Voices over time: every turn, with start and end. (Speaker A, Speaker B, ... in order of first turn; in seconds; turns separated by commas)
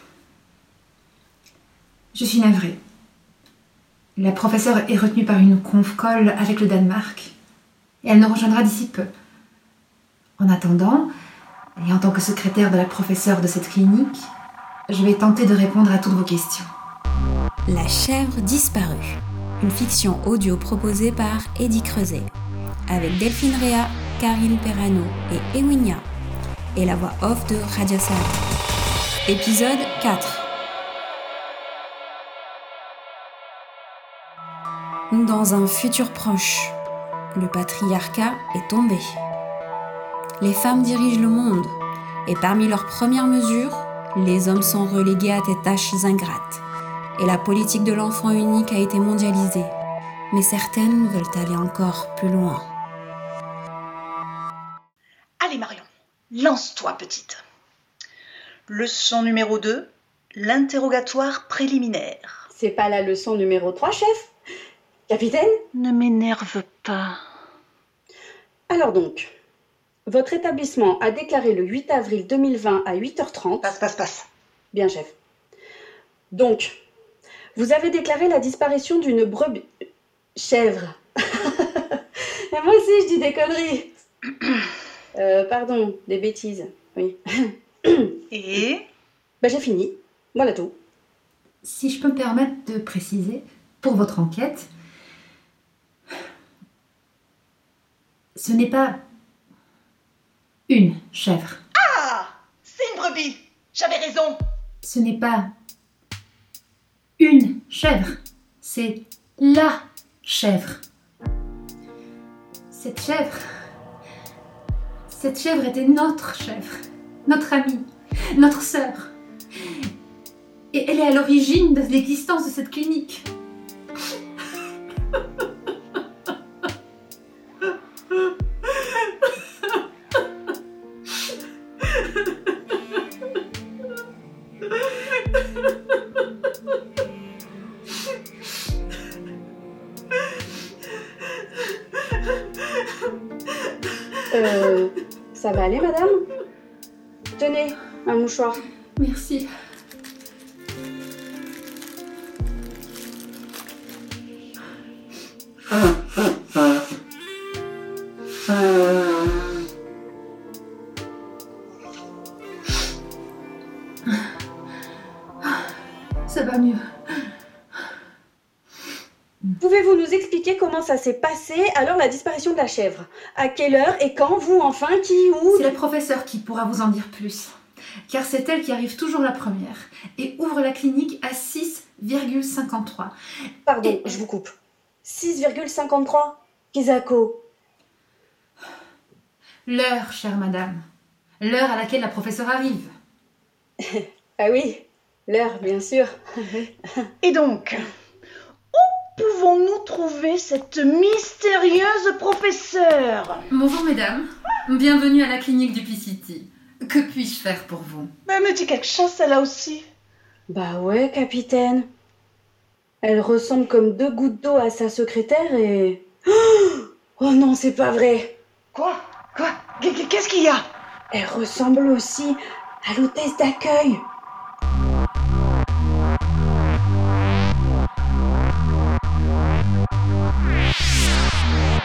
Speaker A: 2.1-2.8, Speaker A: 4.2-7.3, Speaker A: 8.0-9.1, Speaker A: 10.4-11.1, Speaker A: 11.8-14.3, Speaker A: 14.9-16.7, Speaker B: 17.6-22.3, Speaker B: 22.9-26.1, Speaker B: 26.8-28.4, Speaker B: 29.3-30.5, Speaker B: 35.1-36.7, Speaker B: 37.3-39.1, Speaker B: 40.4-46.6, Speaker B: 47.2-49.7, Speaker B: 50.3-52.7, Speaker C: 55.4-57.4, Speaker C: 58.7-62.5, Speaker D: 62.5-64.3, Speaker D: 65.1-65.5, Speaker C: 65.7-67.2, Speaker D: 68.7-69.3, Speaker D: 70.1-73.7, Speaker C: 73.6-74.3, Speaker D: 74.7-75.1, Speaker D: 76.3-76.7, Speaker D: 77.5-79.7, Speaker D: 80.3-81.8, Speaker D: 82.5-83.9, Speaker D: 85.2-88.2, Speaker C: 88.3-88.8, Speaker D: 89.4-90.7, Speaker A: 91.6-94.7, Speaker A: 98.3-99.0, Speaker A: 100.7-101.6, Speaker C: 101.8-104.4, Speaker A: 104.8-105.5, Speaker A: 107.2-110.8, Speaker A: 112.7-113.4, Speaker A: 115.1-119.1, Speaker A: 120.7-123.3, Speaker D: 144.3-146.1, Speaker D: 147.4-148.6, Speaker A: 149.0-149.5, Speaker A: 166.2-166.8, Speaker D: 169.6-175.7, Speaker A: 175.5-177.6, Speaker A: 178.1-183.1, Speaker D: 183.7-184.5, Speaker D: 185.0-187.4, Speaker A: 189.7-190.8, Speaker A: 191.4-192.9, Speaker D: 193.8-196.7, Speaker C: 197.2-197.8, Speaker C: 198.7-203.4, Speaker A: 203.5-208.1, Speaker C: 208.2-209.8, Speaker D: 210.5-211.9, Speaker D: 213.0-218.3, Speaker C: 218.7-220.7, Speaker D: 221.1-224.0